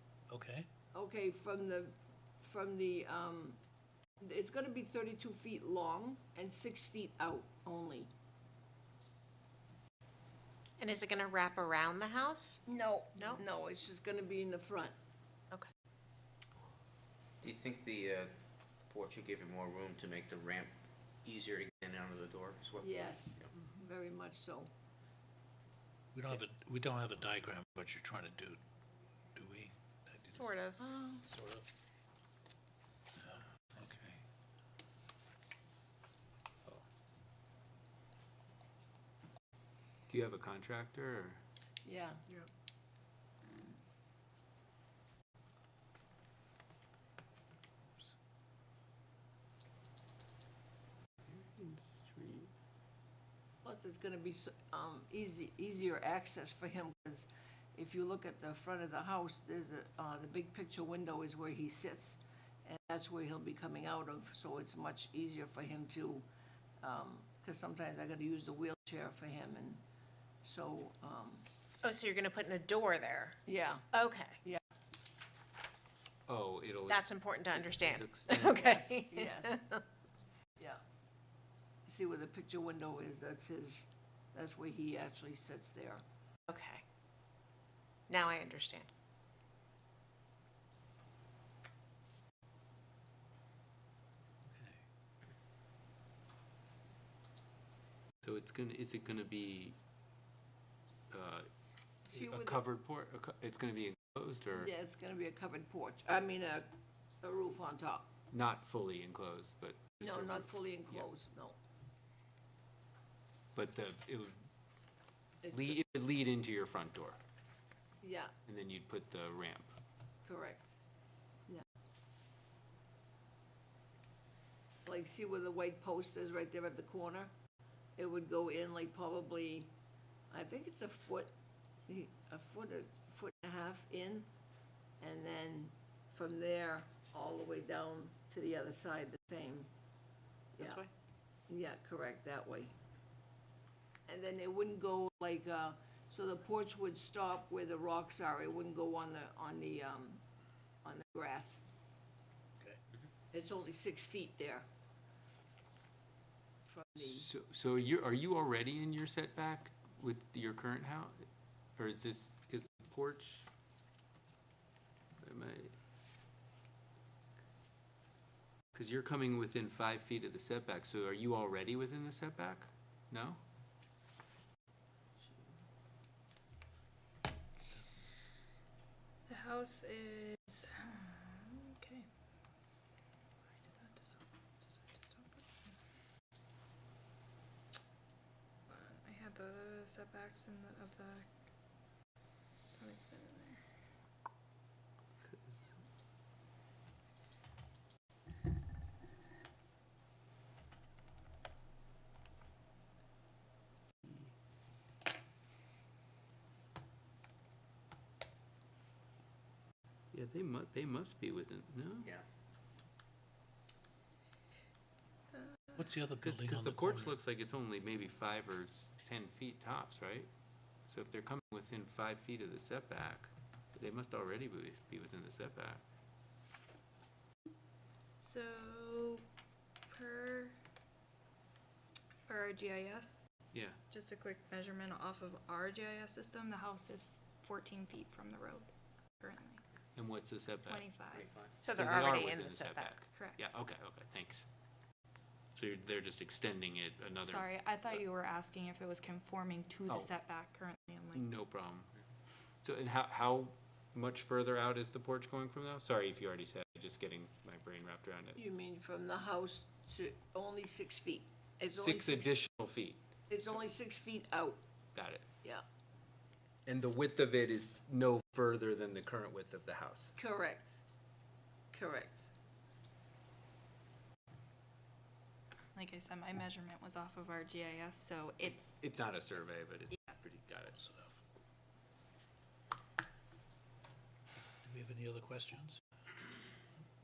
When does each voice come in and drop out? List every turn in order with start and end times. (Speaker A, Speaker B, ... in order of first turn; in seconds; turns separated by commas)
Speaker A: 0.3-0.7, Speaker B: 0.9-3.6, Speaker B: 4.2-8.1, Speaker C: 10.8-12.6, Speaker B: 12.7-14.9, Speaker C: 13.2-13.4, Speaker D: 17.4-23.5, Speaker B: 22.8-24.7, Speaker A: 26.1-28.6, Speaker A: 29.3-30.5, Speaker C: 30.2-30.8, Speaker B: 30.8-31.2, Speaker A: 31.2-31.7, Speaker A: 33.2-34.2, Speaker E: 40.1-41.4, Speaker B: 41.8-42.2, Speaker E: 51.3-52.5, Speaker B: 53.6-66.2, Speaker B: 66.8-69.8, Speaker B: 70.4-71.5, Speaker C: 71.8-73.4, Speaker B: 73.5-73.9, Speaker C: 73.9-74.4, Speaker E: 76.3-78.9, Speaker C: 76.9-79.8, Speaker B: 79.0-79.7, Speaker B: 81.8-86.0, Speaker C: 86.5-86.8, Speaker C: 88.1-88.9, Speaker A: 94.5-94.8, Speaker E: 98.2-99.8, Speaker E: 101.1-101.5, Speaker E: 102.1-104.7, Speaker B: 102.1-102.6, Speaker B: 104.6-106.7, Speaker B: 107.2-108.1, Speaker E: 108.3-111.1, Speaker B: 110.0-111.6, Speaker E: 113.5-114.4, Speaker B: 115.4-115.8, Speaker E: 115.5-117.2, Speaker B: 118.0-118.3, Speaker E: 118.5-119.7, Speaker B: 120.2-120.7, Speaker B: 124.8-127.3, Speaker B: 128.0-129.7, Speaker B: 130.3-131.3, Speaker B: 131.9-134.3, Speaker B: 135.0-139.7, Speaker C: 140.6-140.9, Speaker B: 141.5-142.7, Speaker B: 144.1-150.2, Speaker B: 150.8-151.6, Speaker B: 153.3-154.7, Speaker B: 156.7-157.3, Speaker E: 157.0-161.2, Speaker E: 161.8-163.5, Speaker E: 165.2-165.7, Speaker E: 168.7-173.4, Speaker F: 179.3-182.1, Speaker F: 183.5-185.7, Speaker F: 188.7-191.3, Speaker F: 192.8-193.6, Speaker E: 195.2-195.8, Speaker E: 210.1-212.1, Speaker A: 215.7-217.2, Speaker E: 216.2-220.3, Speaker E: 220.9-225.8, Speaker F: 228.2-229.2, Speaker F: 229.9-230.6, Speaker F: 232.3-233.3, Speaker E: 233.5-233.8, Speaker F: 233.9-239.6, Speaker E: 239.9-240.9, Speaker F: 240.7-241.3, Speaker D: 241.1-241.5, Speaker C: 241.6-243.0, Speaker E: 241.7-244.4, Speaker E: 245.5-248.0, Speaker F: 247.2-251.2, Speaker E: 251.1-251.9, Speaker E: 252.6-258.4, Speaker B: 258.4-262.3, Speaker E: 261.7-263.1, Speaker B: 263.3-264.6, Speaker E: 264.9-265.2, Speaker E: 266.6-270.1, Speaker B: 270.2-270.7, Speaker B: 271.7-272.2, Speaker F: 275.7-278.8, Speaker E: 278.4-280.8, Speaker A: 280.7-281.2, Speaker A: 284.6-285.8